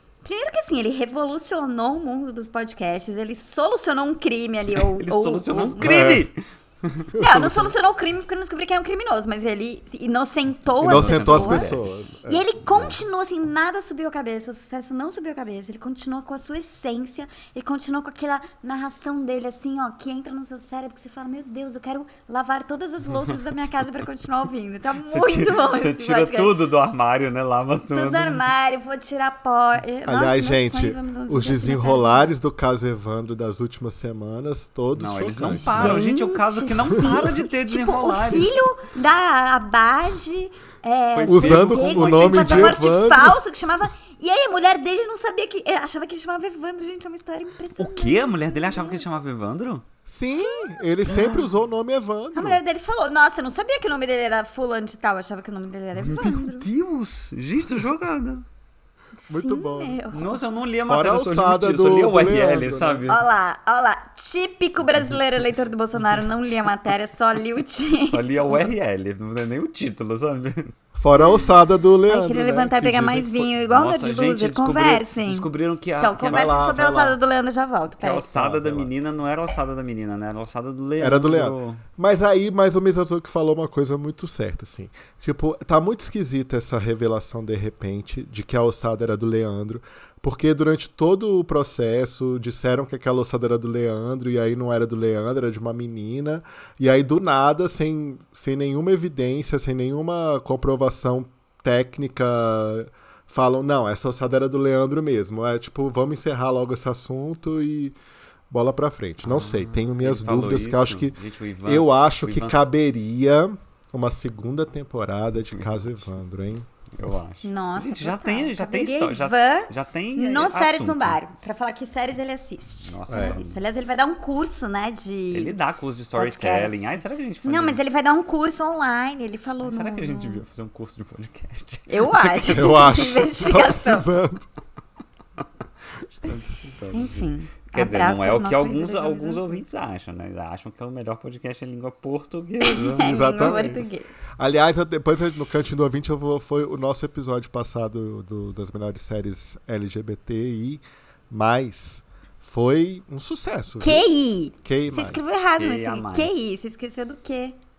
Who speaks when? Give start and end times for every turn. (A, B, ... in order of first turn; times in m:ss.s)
0:00.2-0:06.2 A
0:04.8-0:07.1 B
0:05.8-0:06.3 C
0:07.1-0:07.7 C
0:07.2-0:26.6 A
0:10.8-0:12.0 B
0:10.8-0:12.5 C
0:25.0-0:28.4 B
0:27.9-0:32.3 A
0:30.1-0:36.1 C
0:35.0-0:38.5 B
0:35.6-0:49.0 A
0:41.2-0:42.9 B
0:41.3-0:43.4 C
0:47.8-0:49.8 B
0:50.1-0:52.6 C
0:50.4-0:51.4 A
0:52.3-0:56.7 A
0:56.1-0:58.4 B
0:59.2-1:00.4 A
0:59.3-1:00.0 C
1:00.1-1:03.2 B
1:00.9-1:03.1 C
1:03.1-1:08.7 A
1:08.1-1:10.7 B
1:11.0-1:13.5 C
1:12.1-1:15.5 A
1:13.7-1:16.8 B
1:16.0-1:18.3 A
1:16.3-1:17.2 C
1:18.0-1:21.8 B
1:18.3-1:18.9 C
1:21.0-1:48.0 C
1:48.5-1:56.7 C
1:49.2-1:52.7 B
1:55.5-1:56.0 B
1:56.9-2:01.2 B
1:57.4-2:05.6 A
2:02.8-2:03.6 B
2:03.1-2:03.4 C
2:05.3-2:07.8 B
2:06.2-2:10.4 A
2:09.6-2:12.7 B
2:11.9-2:14.1 A
2:12.5-2:14.5 C
2:16.0-2:23.9 B
2:16.9-2:19.6 A
2:22.6-2:24.1 A
2:23.0-2:23.8 C
2:24.4-2:34.1 C
2:33.8-2:37.6 A
2:34.6-2:35.3 C
2:35.5-2:36.4 B